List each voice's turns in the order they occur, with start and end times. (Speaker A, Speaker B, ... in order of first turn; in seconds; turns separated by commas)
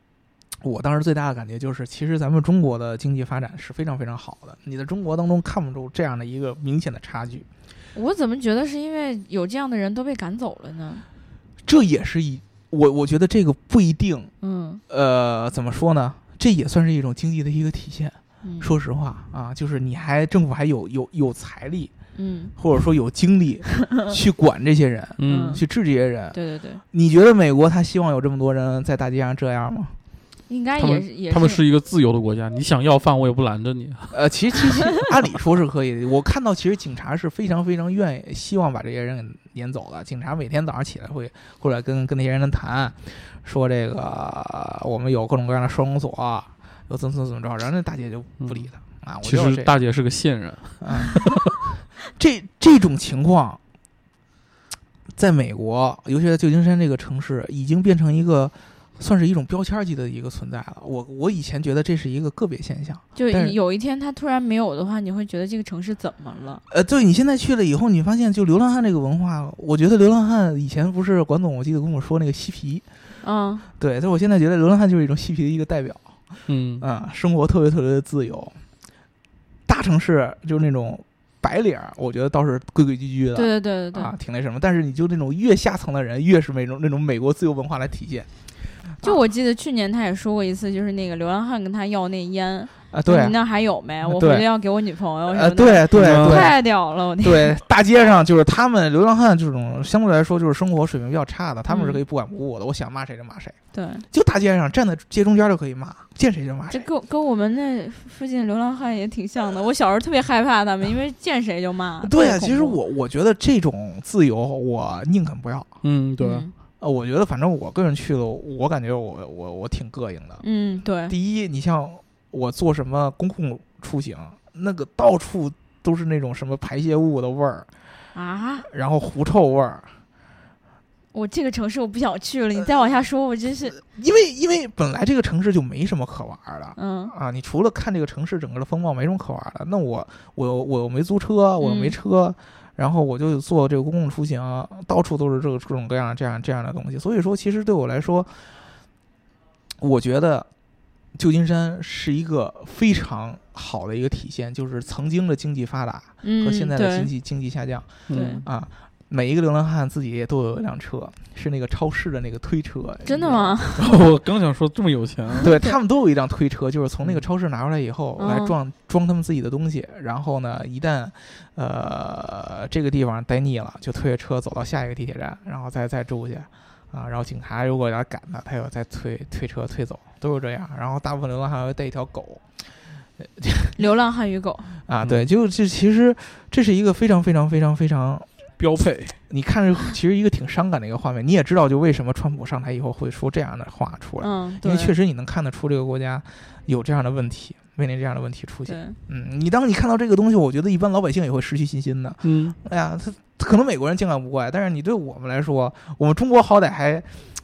Speaker A: 0.6-7.5, Speaker B: 7.9-11.0, Speaker A: 11.6-14.3, Speaker B: 14.4-14.8, Speaker A: 14.9-21.9, Speaker B: 18.4-18.7, Speaker B: 22.1-22.5, Speaker A: 22.6-26.4, Speaker C: 25.2-25.6, Speaker B: 25.2-25.6, Speaker B: 26.3-26.8, Speaker A: 26.9-29.9, Speaker B: 30.5-31.6, Speaker C: 30.8-34.1, Speaker A: 34.1-49.7, Speaker C: 48.4-48.7, Speaker C: 49.2-51.5, Speaker A: 50.8-51.2, Speaker A: 52.1-53.6, Speaker A: 55.1-63.5, Speaker B: 63.1-66.6, Speaker A: 66.7-72.8, Speaker B: 73.2-73.7, Speaker A: 73.8-76.0, Speaker C: 76.5-76.8, Speaker A: 76.8-78.5, Speaker A: 79.7-88.3, Speaker B: 83.3-84.1, Speaker B: 89.0-97.5, Speaker A: 92.9-93.4, Speaker A: 94.0-94.5, Speaker A: 95.3-96.6, Speaker C: 95.9-96.5, Speaker A: 97.2-103.6, Speaker B: 101.7-102.0, Speaker B: 103.7-104.0, Speaker A: 104.1-106.9, Speaker B: 106.7-112.8, Speaker A: 112.0-115.7, Speaker C: 115.8-116.5, Speaker B: 116.2-116.5, Speaker A: 116.8-120.4, Speaker B: 120.4-121.1, Speaker A: 121.1-127.7, Speaker B: 128.1-128.7, Speaker A: 128.7-129.9, Speaker B: 131.1-133.8, Speaker A: 133.8-148.3, Speaker B: 136.8-137.1, Speaker B: 141.6-141.9, Speaker A: 149.8-150.5, Speaker A: 151.1-163.6, Speaker B: 156.2-157.1, Speaker C: 158.1-158.4, Speaker B: 158.1-158.4, Speaker B: 163.0-163.8, Speaker C: 163.8-165.5, Speaker A: 165.4-182.4, Speaker B: 165.4-165.8, Speaker B: 168.2-168.5, Speaker A: 183.2-183.8, Speaker B: 183.8-184.8, Speaker A: 184.9-188.3, Speaker C: 185.0-185.3, Speaker C: 188.6-189.1, Speaker A: 188.8-207.1, Speaker B: 194.2-194.9, Speaker B: 198.7-199.0, Speaker C: 202.2-202.6